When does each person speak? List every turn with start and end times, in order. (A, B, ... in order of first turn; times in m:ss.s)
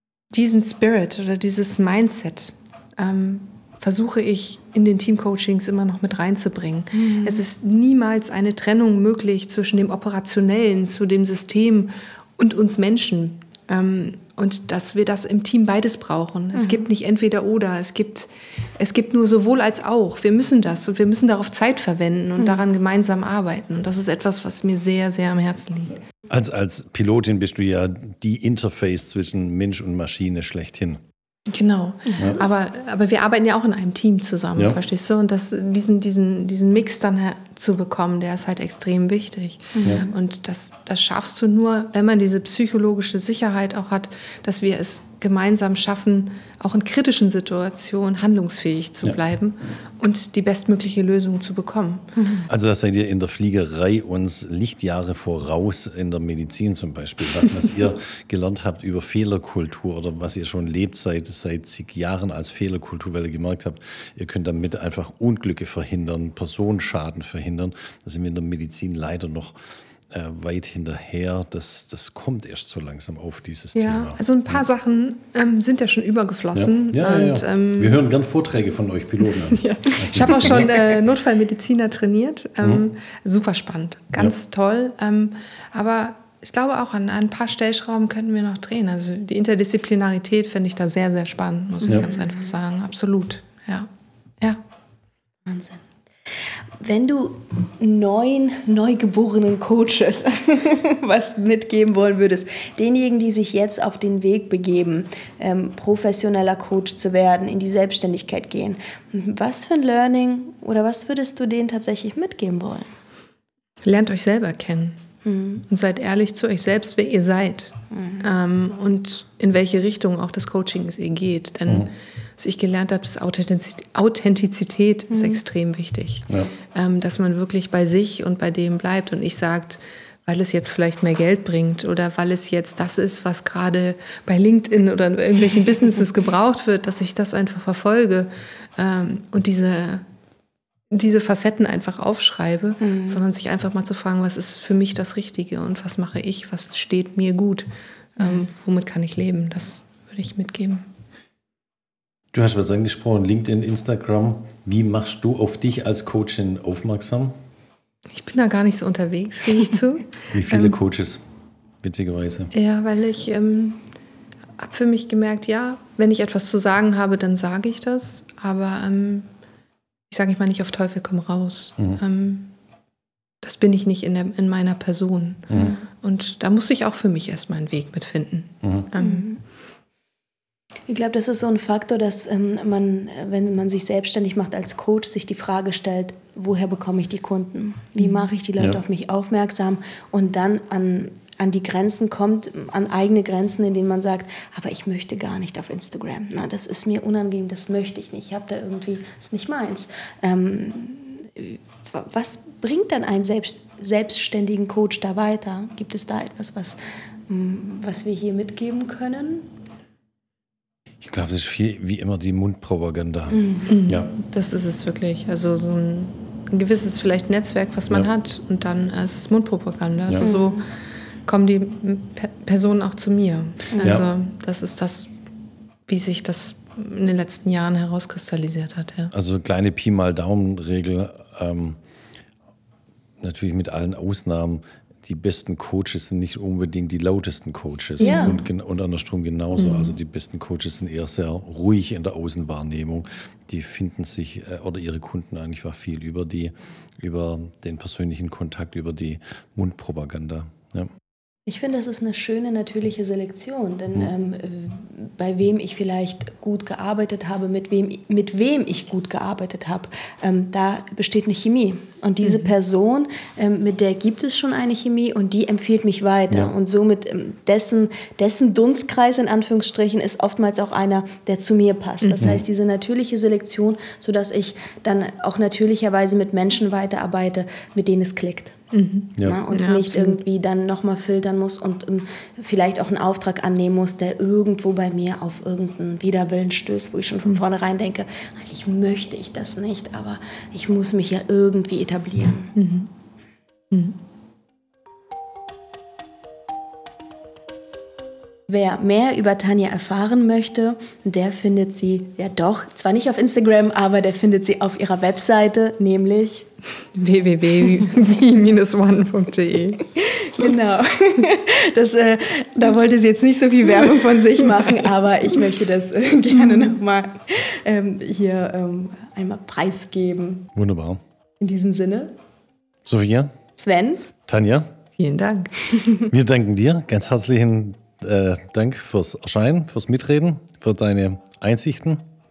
0:00.3-0:26.0 A
0:07.0-0:07.4 B
0:16.5-0:16.8 B
0:26.3-0:31.0 C
0:31.5-0:52.1 A
0:32.1-0:32.5 B
0:39.8-0:40.1 B
0:52.2-0:52.5 B
0:52.5-1:09.6 C
1:10.1-1:14.6 C
1:13.8-1:18.0 A
1:16.6-1:20.7 C
1:19.3-1:33.9 A
1:35.5-1:35.8 B
1:36.8-1:52.9 B
1:53.8-1:55.0 A
1:55.2-1:55.6 B
1:55.7-2:20.0 A
1:57.9-1:58.2 B
2:05.1-2:05.4 B
2:20.9-2:30.9 A
2:22.8-2:23.2 B
2:32.3-2:37.3 C
2:38.1-2:40.8 A
2:40.3-2:41.2 C
2:41.8-2:42.5 C
2:42.5-2:43.8 A
2:44.6-2:49.3 A
2:50.1-2:52.5 A
2:53.4-2:59.3 A
2:55.5-2:55.8 B
2:59.0-2:59.4 B
3:00.9-3:29.5 B
3:31.0-3:34.1 C
3:33.3-3:33.7 B
3:33.7-3:40.6 A
3:40.2-3:40.6 B
3:41.3-3:45.1 A
3:43.8-3:44.1 C
3:45.9-3:49.1 A
3:49.1-3:51.8 C
3:53.2-4:10.9 C
3:58.0-3:58.4 A
3:58.0-3:58.4 B
3:59.6-4:00.0 A
4:11.5-4:38.6 B
4:22.2-4:22.5 A
4:32.0-4:32.3 A
4:38.7-4:40.2 A
4:39.2-4:52.5 B
4:52.6-4:52.9 A
4:53.7-4:54.0 A
4:58.5-5:06.5 B
5:07.0-5:10.5 A
5:10.0-5:20.5 B
5:16.4-5:16.7 A
5:20.6-5:21.0 C
5:21.4-5:22.1 B
5:22.9-5:23.3 C
5:23.6-5:24.1 B
5:24.3-5:24.7 C
5:25.0-5:25.8 A
5:26.1-5:32.0 C